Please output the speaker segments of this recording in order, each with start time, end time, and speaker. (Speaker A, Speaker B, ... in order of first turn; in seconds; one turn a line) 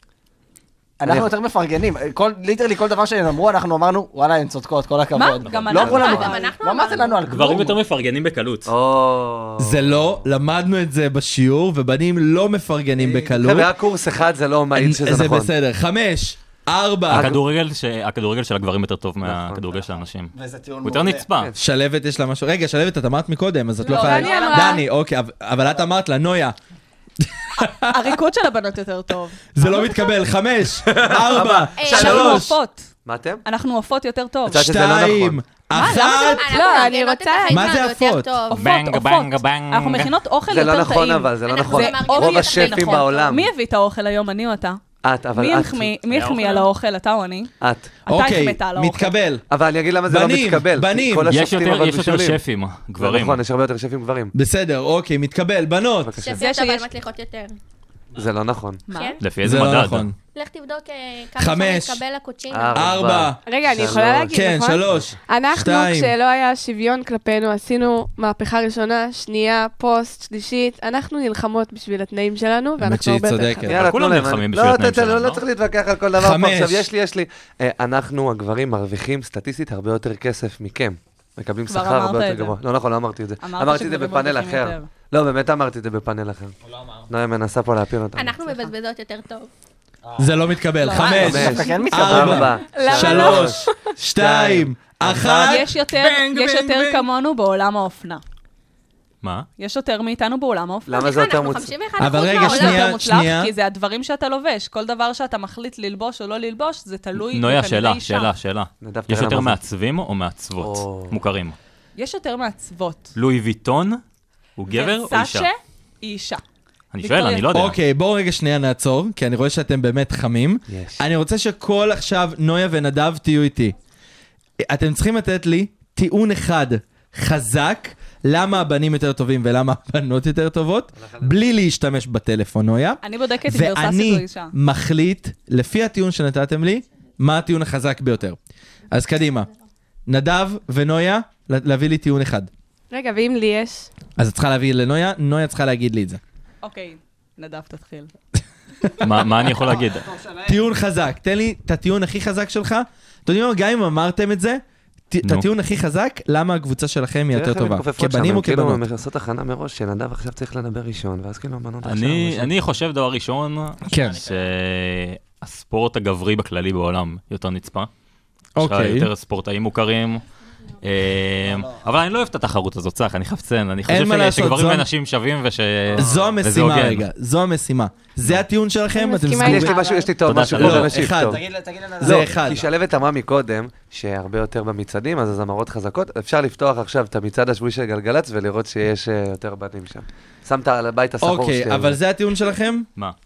Speaker A: 1.0-7.8
Speaker B: 1.0-1.3
Speaker C: 5.1-6.5
Speaker D: 5.5-5.8
Speaker B: 5.7-6.3
Speaker E: 5.8-7.2
Speaker D: 7.3-8.7
Speaker B: 8.7-10.1
Speaker F: 9.6-13.7
Speaker B: 13.2-15.5
Speaker F: 14.7-17.4
Speaker B: 17.1-17.4
Speaker D: 17.1-21.5
Speaker B: 19.2-19.6
Speaker A: 20.3-21.3
Speaker F: 21.6-26.6
Speaker G: 23.8-24.8
Speaker C: 23.8-24.8
Speaker F: 27.2-28.0
Speaker C: 27.8-30.1
Speaker F: 29.5-32.5
Speaker B: 30.8-32.4
Speaker E: 31.8-32.4
Speaker C: 31.8-32.9
Speaker B: 33.0-33.4
Speaker C: 33.5-34.6
Speaker B: 34.5-35.4
Speaker F: 34.5-36.5
Speaker C: 35.7-36.9
Speaker E: 36.1-38.6
Speaker G: 36.5-37.8
Speaker F: 37.5-38.4
Speaker C: 38.5-44.8
Speaker D: 38.5-40.1
Speaker B: 40.5-43.5
Speaker E: 41.4-43.4
Speaker B: 45.0-45.9
Speaker C: 45.3-47.5
Speaker D: 46.1-46.7
Speaker B: 47.6-47.9
Speaker C: 48.1-49.1
Speaker F: 48.1-49.4
Speaker B: 49.5-52.4
Speaker F: 50.1-51.4
Speaker D: 51.3-53.4
Speaker B: 53.0-54.3
Speaker F: 54.3-56.2
Speaker B: 56.0-56.5
Speaker E: 56.2-57.6
Speaker C: 56.4-56.9
Speaker B: 58.1-58.8
Speaker C: 58.9-59.2
Speaker E: 58.9-59.2
Speaker D: 59.2-60.1
Speaker F: 59.4-60.1
Speaker E: 60.3-62.9
Speaker F: 61.4-62.0
Speaker B: 62.5-64.3
Speaker F: 62.7-66.1
Speaker G: 63.4-73.7
Speaker B: 64.9-65.1
Speaker F: 72.8-73.9
Speaker B: 73.6-86.5
Speaker D: 73.7-75.4
Speaker F: 76.2-76.9
Speaker C: 81.7-82.6
Speaker C: 83.4-84.9
Speaker A: 86.7-87.1
Speaker B: 87.1-88.4
Speaker E: 88.1-89.5
Speaker A: 90.0-90.4
Speaker F: 90.2-97.0
Speaker C: 90.8-91.8
Speaker B: 91.0-95.6
Speaker A: 91.2-92.5
Speaker C: 92.7-93.4
Speaker G: 92.7-93.5
Speaker C: 95.4-98.2
Speaker D: 99.2-99.5
Speaker C: 99.6-101.0
Speaker B: 100.9-101.8
Speaker E: 100.9-102.9
Speaker F: 102.0-103.5
Speaker C: 102.3-108.3
Speaker D: 107.2-111.5
Speaker B: 108.8-109.6
Speaker B: 110.6-111.2
Speaker C: 112.0-113.1
Speaker D: 113.1-114.0
Speaker D: 114.6-115.5
Speaker C: 114.7-116.4
Speaker D: 116.9-117.8
Speaker C: 117.0-117.5
Speaker F: 117.5-123.8
Speaker B: 120.7-121.0
Speaker F: 124.6-138.4
Speaker B: 130.9-131.3
Speaker C: 133.0-134.5
Speaker F: 138.9-139.5
Speaker F: 140.1-142.5
Speaker G: 142.9-143.9
Speaker F: 144.2-146.2
Speaker C: 146.6-148.1
Speaker D: 149.0-150.1
Speaker A: 150.0-150.6
Speaker F: 150.4-158.8
Speaker B: 157.3-162.5
Speaker D: 161.8-167.9
Speaker F: 163.9-164.3
Speaker F: 168.6-169.1
Speaker D: 168.6-170.2
Speaker D: 170.8-177.1
Speaker A: 171.4-171.8
Speaker F: 173.9-174.9
Speaker B: 175.9-176.3
Speaker F: 175.9-179.8
Speaker G: 178.9-180.1
Speaker B: 179.4-181.4
Speaker D: 180.2-181.1
Speaker F: 180.5-181.4
Speaker A: 181.1-182.3
Speaker F: 182.0-182.7
Speaker B: 182.0-192.0
Speaker F: 191.2-192.9